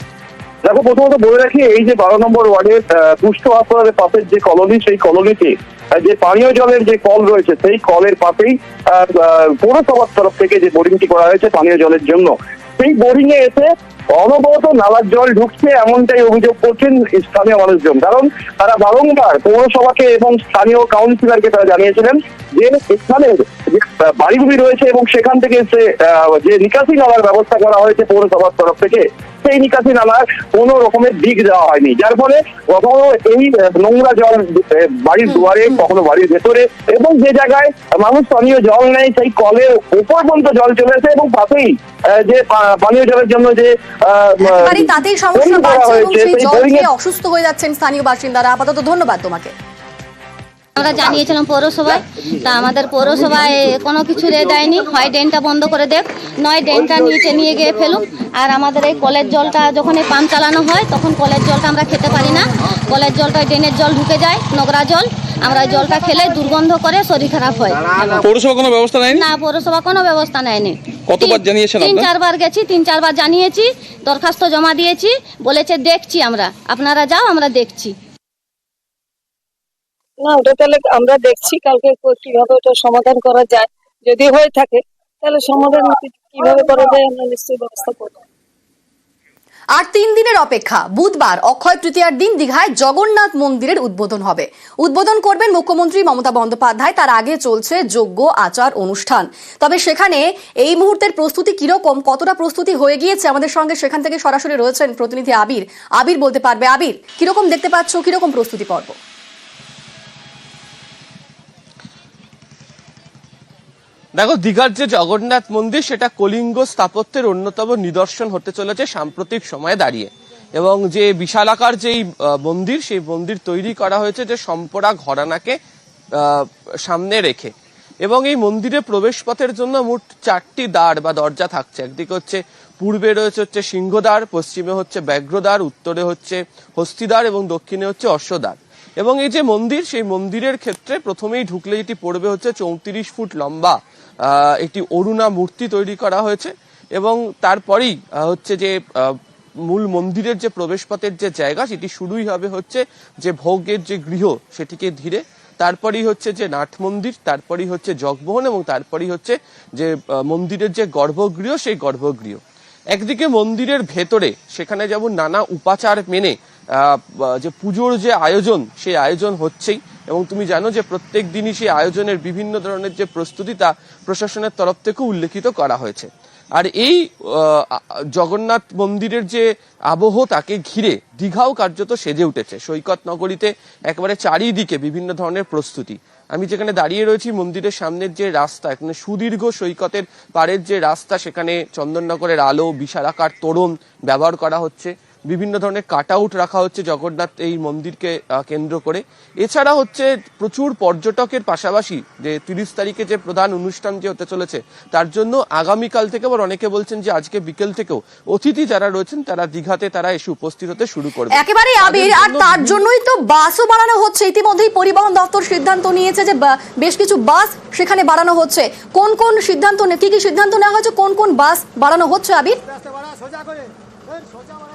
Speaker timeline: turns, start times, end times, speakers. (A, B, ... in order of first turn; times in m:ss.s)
0:00.6-0:46.9 A
0:44.4-0:49.5 B
0:50.8-1:08.1 C
1:08.2-1:09.2 D
1:09.1-1:17.9 C
1:11.1-1:12.1 D
1:20.2-1:28.2 E
1:29.8-1:49.0 B
1:54.2-2:05.6 F
2:06.2-2:42.4 F
2:42.9-3:32.8 F
3:31.3-3:42.6 B